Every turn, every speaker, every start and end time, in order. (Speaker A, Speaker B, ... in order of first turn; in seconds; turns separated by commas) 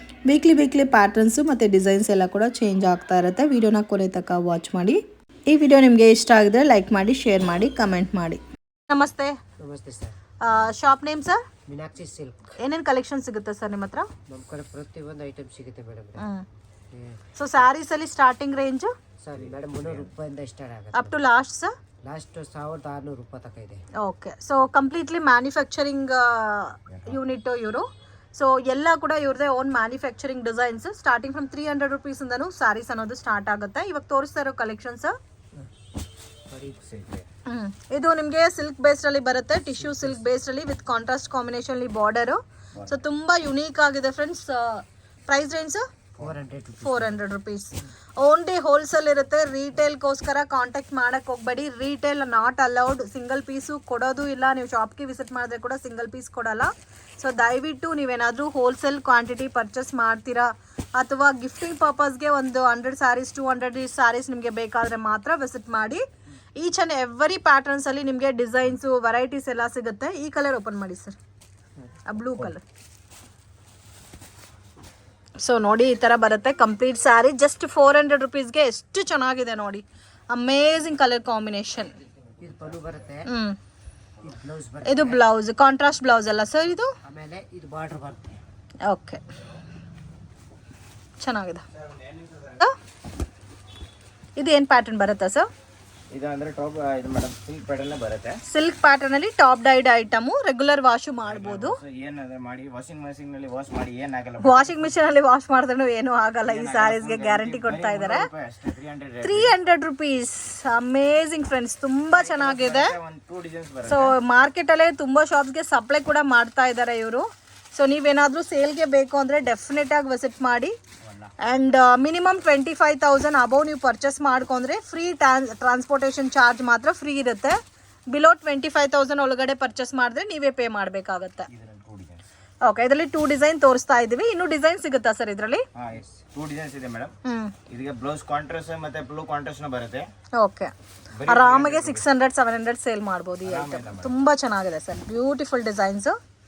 Speaker A: 0.3-9.3, Speaker B: 9.6-10.1, Speaker A: 10.4-11.4, Speaker B: 11.7-12.3, Speaker A: 12.6-14.1, Speaker B: 14.3-16.1, Speaker A: 16.2-16.4, Speaker A: 17.4-18.9, Speaker B: 19.2-21.0, Speaker C: 19.4-20.1, Speaker A: 20.9-21.7, Speaker B: 22.0-23.7, Speaker A: 24.0-35.1, Speaker C: 26.9-27.2, Speaker C: 36.9-37.2, Speaker A: 37.5-45.8, Speaker C: 42.7-43.0, Speaker B: 46.2-46.9, Speaker A: 46.8-66.0, Speaker A: 66.6-71.2, Speaker A: 72.1-72.6, Speaker A: 75.4-81.9, Speaker B: 82.4-83.2, Speaker A: 83.3-83.6, Speaker B: 84.2-85.2, Speaker A: 84.8-86.9, Speaker B: 87.1-88.4, Speaker A: 88.9-89.2, Speaker A: 91.2-91.6, Speaker C: 91.7-92.6, Speaker A: 94.4-95.5, Speaker C: 96.1-98.4, Speaker A: 98.5-101.8, Speaker C: 101.2-105.0, Speaker A: 104.4-108.3, Speaker C: 106.4-109.5, Speaker A: 109.2-112.9, Speaker C: 112.1-114.1, Speaker A: 113.8-120.7, Speaker C: 121.0-121.3, Speaker A: 121.4-127.5, Speaker A: 128.1-131.5, Speaker C: 131.5-132.3, Speaker A: 132.6-135.6, Speaker C: 135.7-137.1, Speaker A: 137.2-137.5, Speaker C: 137.7-140.1, Speaker A: 140.4-140.7, Speaker C: 141.1-142.1, Speaker A: 141.3-146.1, Speaker C: 143.4-144.1